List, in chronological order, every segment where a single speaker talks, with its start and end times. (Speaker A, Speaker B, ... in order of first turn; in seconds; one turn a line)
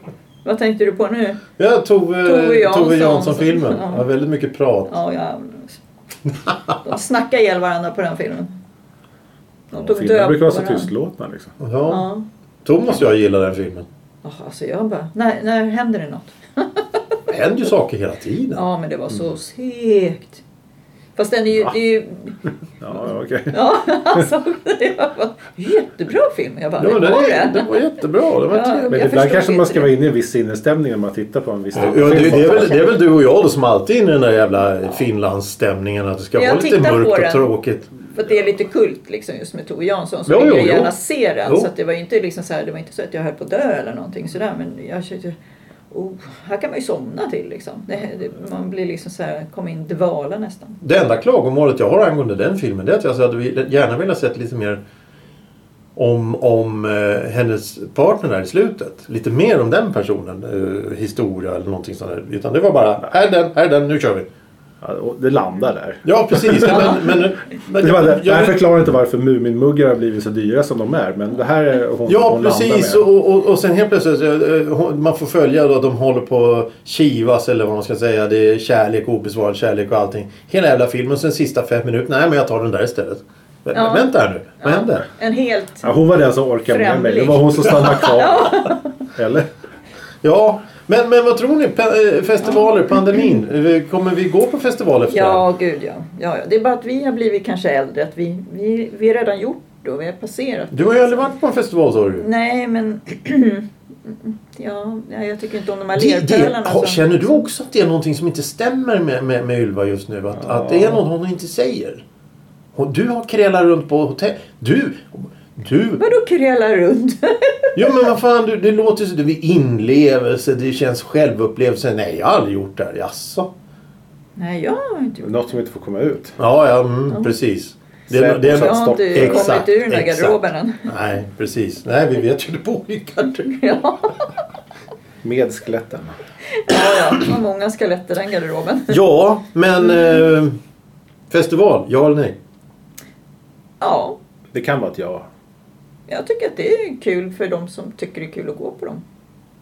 Speaker A: 0.4-1.4
Speaker B: 1.6-5.0
Speaker A: 2.2-4.1
Speaker A: 4.9-5.8
Speaker A: 6.8-8.6
Speaker A: 9.7-10.9
Speaker C: 9.7-11.5
Speaker B: 11.6-12.1
Speaker A: 11.9-12.3
Speaker B: 12.7-13.9
Speaker A: 14.2-17.2
Speaker B: 17.3-18.6
Speaker A: 18.5-20.4
Speaker A: 21.2-22.4
Speaker C: 22.8-23.7
Speaker A: 23.5-27.8
Speaker B: 26.8-29.0
Speaker A: 28.5-29.9
Speaker C: 28.9-32.8
Speaker B: 31.7-37.9
Speaker A: 32.1-32.9
Speaker A: 36.4-37.5
Speaker A: 38.1-45.4
Speaker B: 40.3-40.9
Speaker B: 41.5-41.7
Speaker A: 45.9-50.8
Speaker B: 50.8-54.8
Speaker B: 56.0-64.3
Speaker C: 64.8-67.0
Speaker B: 66.0-68.6
Speaker C: 67.7-73.1
Speaker B: 72.1-85.1
Speaker A: 83.7-85.9
Speaker C: 85.8-89.5
Speaker A: 86.7-88.9
Speaker B: 90.2-95.5
Speaker A: 95.1-101.3
Speaker B: 100.7-102.3
Speaker A: 102.2-107.5
Speaker B: 106.0-112.0
Speaker C: 110.4-111.0
Speaker B: 112.8-116.0
Speaker A: 116.0-117.8
Speaker B: 117.8-123.5
Speaker A: 124.4-125.5
Speaker C: 125.2-126.4
Speaker B: 126.4-133.5
Speaker C: 128.1-129.6
Speaker A: 128.5-130.9
Speaker A: 133.4-134.3
Speaker C: 135.2-136.2
Speaker A: 136.6-139.0
Speaker B: 138.9-140.6
Speaker B: 141.3-142.4
Speaker A: 143.8-144.2
Speaker C: 144.5-145.3
Speaker A: 146.1-149.0